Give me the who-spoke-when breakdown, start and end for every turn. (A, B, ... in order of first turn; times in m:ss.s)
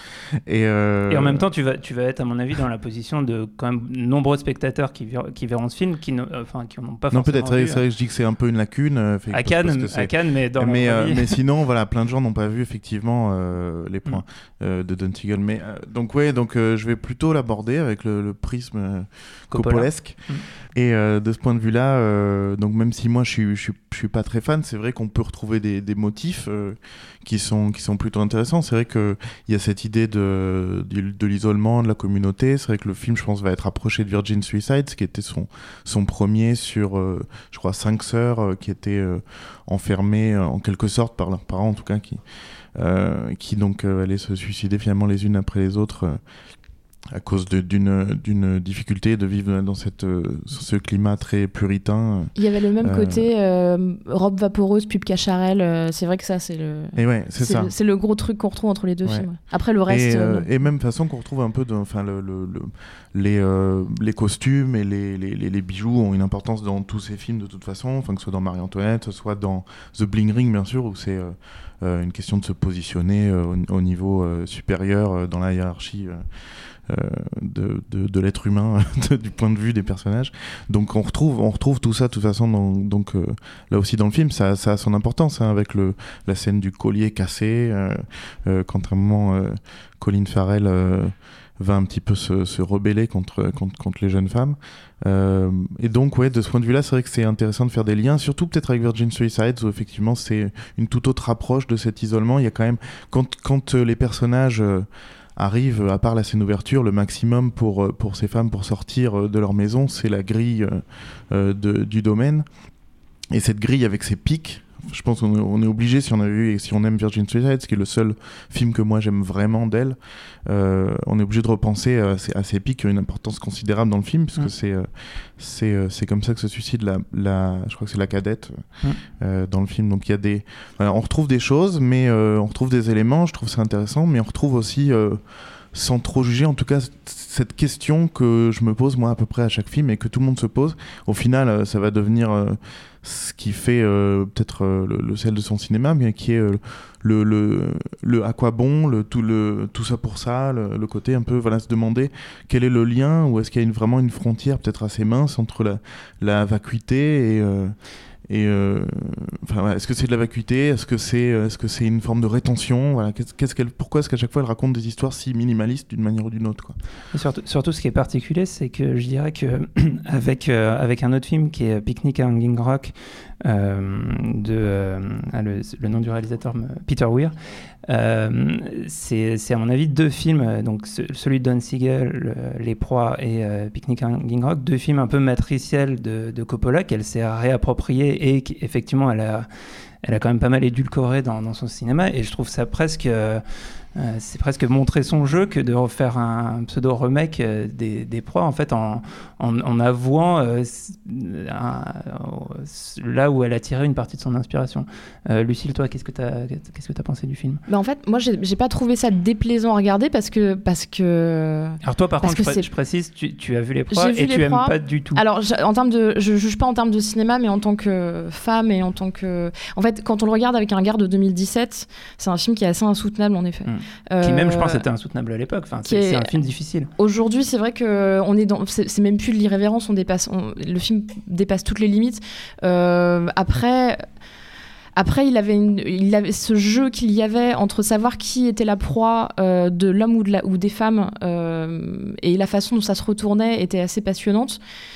0:00.3-0:01.5 A
0:01.1-0:07.8 B
0:07.1-0:42.2 A
0:09.3-0:11.4 B
0:19.5-0:20.4 B
0:42.7-0:46.2 A
0:47.1-0:53.2 A
0:52.3-1:00.4 C
0:57.0-0:57.7 A
0:59.9-1:16.2 A
1:16.9-1:52.4 A
1:53.3-2:08.6 A
2:09.2-2:15.2 A
2:15.7-2:37.7 A
2:38.3-2:46.8 A
2:47.1-3:09.5 B
3:10.0-3:13.4 B
3:14.0-3:27.6 B
3:27.7-3:32.6 C
3:31.8-3:35.2 B
3:33.9-3:44.8 C
3:43.6-3:46.9 B
3:45.8-3:46.3 C
3:47.0-3:54.0 C
3:54.9-4:04.6 C